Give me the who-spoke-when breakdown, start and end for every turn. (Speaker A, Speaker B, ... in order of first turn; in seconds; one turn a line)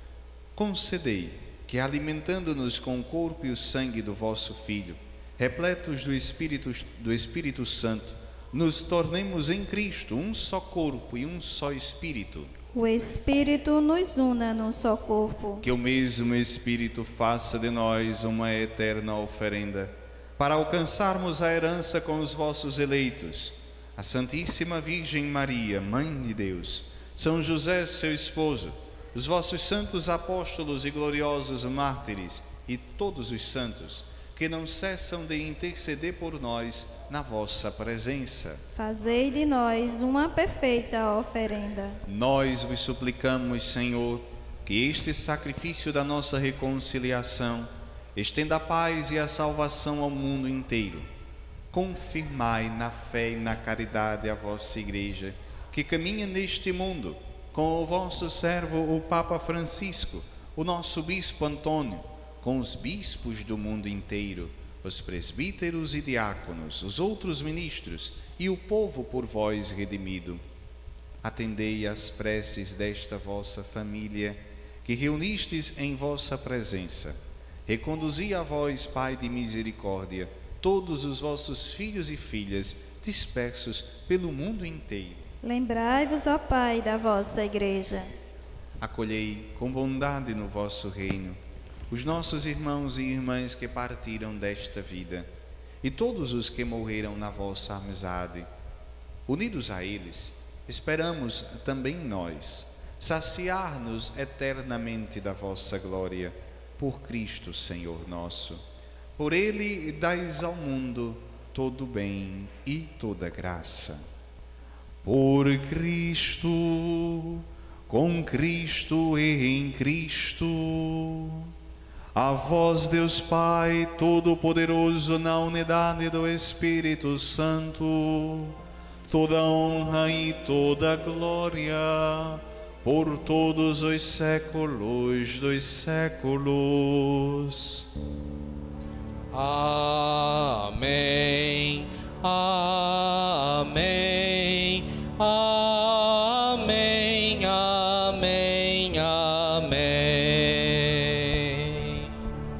Speaker A: 0.5-12.5
Speaker B: 12.7-15.6
Speaker A: 15.6-38.6
Speaker B: 38.8-42.0
Speaker A: 42.0-51.1
Speaker A: 51.7-70.4
Speaker A: 71.2-85.2
Speaker B: 85.4-88.1
Speaker A: 88.8-95.3
Speaker A: 95.8-98.5
Speaker A: 99.3-108.6
Speaker A: 109.2-114.0
Speaker A: 115.0-121.5
Speaker A: 122.1-137.9
Speaker C: 139.3-152.1